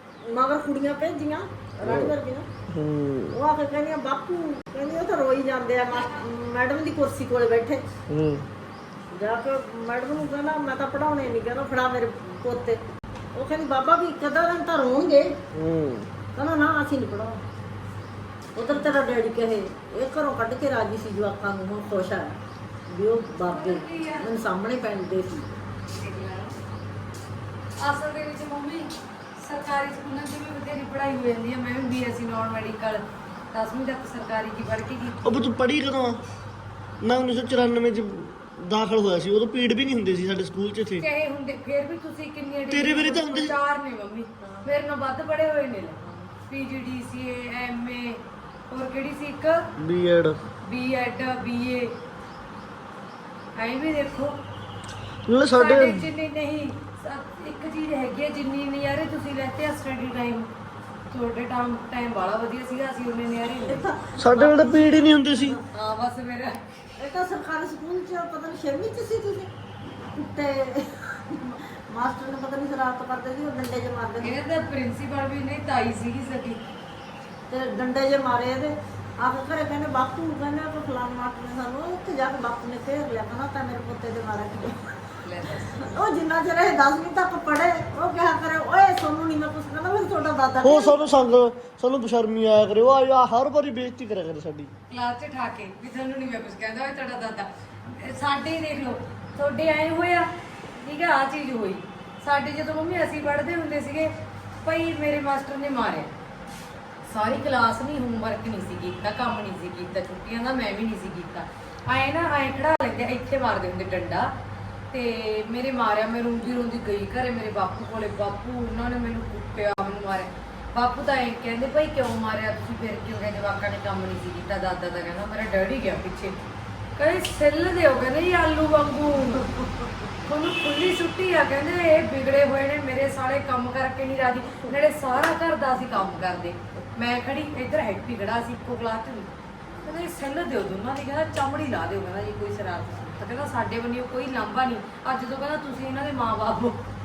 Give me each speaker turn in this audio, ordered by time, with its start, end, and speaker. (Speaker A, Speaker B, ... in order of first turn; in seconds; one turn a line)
Speaker A: 0.2-2.5
Speaker B: 1.8-2.1
Speaker B: 2.7-3.4
Speaker A: 3.3-7.8
Speaker B: 8.1-8.4
Speaker A: 9.1-12.8
Speaker A: 13.3-15.4
Speaker B: 15.5-16.1
Speaker A: 16.4-17.4
Speaker A: 18.6-22.3
Speaker A: 22.9-25.5
Speaker C: 23.5-24.4
Speaker C: 25.9-26.5
Speaker C: 27.8-35.5
Speaker B: 35.2-36.2
Speaker B: 37.0-41.0
Speaker C: 41.0-49.7
Speaker B: 42.7-43.6
Speaker A: 44.4-44.7
Speaker B: 49.8-50.4
Speaker C: 50.6-51.9
Speaker C: 53.5-54.4
Speaker B: 55.3-56.1
Speaker C: 55.5-60.5
Speaker C: 61.1-63.9
Speaker A: 63.6-64.8
Speaker B: 64.2-65.6
Speaker C: 65.7-66.6
Speaker A: 67.0-69.5
Speaker A: 70.1-74.3
Speaker C: 74.2-76.6
Speaker A: 77.5-84.9
Speaker C: 85.2-85.9
Speaker A: 85.8-91.0
Speaker B: 90.6-94.7
Speaker C: 94.9-104.1
Speaker C: 104.6-106.1
Speaker C: 107.0-114.3
Speaker C: 114.9-126.4
Speaker C: 127.0-129.6
Speaker C: 130.2-139.3
Speaker C: 139.8-146.8